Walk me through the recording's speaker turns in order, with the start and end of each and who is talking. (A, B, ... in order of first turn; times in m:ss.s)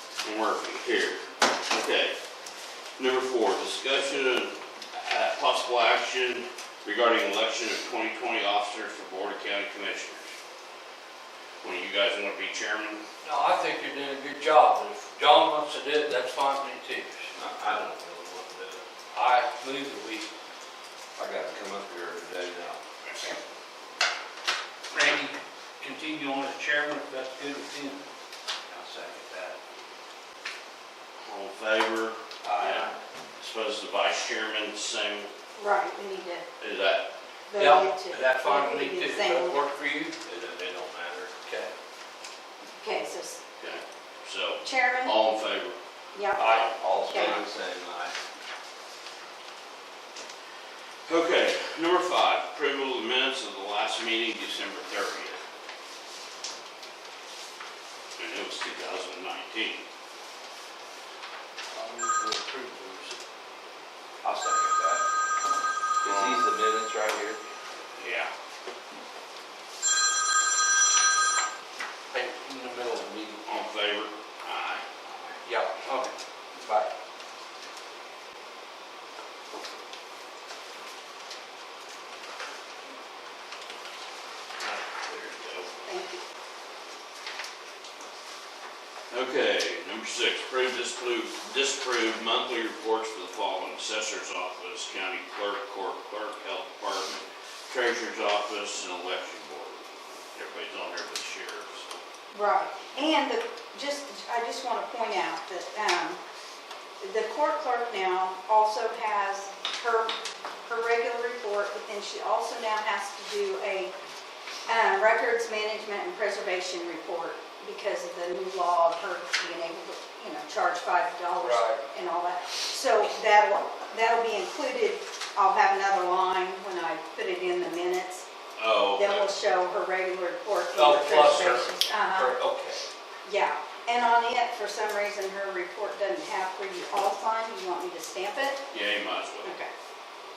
0:00.2-0:02.2 A
0:03.0-0:10.3 A
0:11.6-0:13.0 A
0:13.2-0:17.3 B
0:17.3-0:18.8 C
0:19.1-0:20.3 B
0:21.2-0:22.8 C
0:23.0-0:23.3 A
0:24.9-0:28.0 B
0:28.7-0:29.6 C
0:31.2-0:35.3 A
0:32.4-0:32.8 B
0:35.5-0:36.4 D
0:36.6-0:37.1 A
0:37.5-0:39.6 D
0:37.6-0:40.2 B
0:40.2-0:41.4 C
0:41.4-0:41.7 B
0:42.7-0:43.4 D
0:43.6-0:45.8 A
0:44.6-0:45.2 D
0:46.1-0:47.4 D
0:46.4-0:46.7 B
0:46.4-0:47.4 A
0:46.8-0:48.1 C
0:51.0-0:55.4 A
0:58.2-0:59.8 A
1:01.7-1:03.2 B
1:04.2-1:05.0 C
1:06.0-1:07.4 C
1:06.0-1:06.5 A
1:08.0-1:08.3 A
1:12.1-1:13.5 B
1:13.4-1:14.8 A
1:15.4-1:16.9 B
1:24.6-1:25.9 A
1:25.8-1:26.2 D
1:29.1-1:42.0 A
1:42.3-1:46.2 D
1:47.0-1:53.9 D
1:54.6-2:08.2 D
2:01.4-2:01.8 B
2:08.6-2:09.3 A
2:08.9-2:12.3 D
2:10.7-2:12.8 B
2:13.2-2:18.6 D
2:18.7-2:19.5 A
2:19.4-2:19.7 D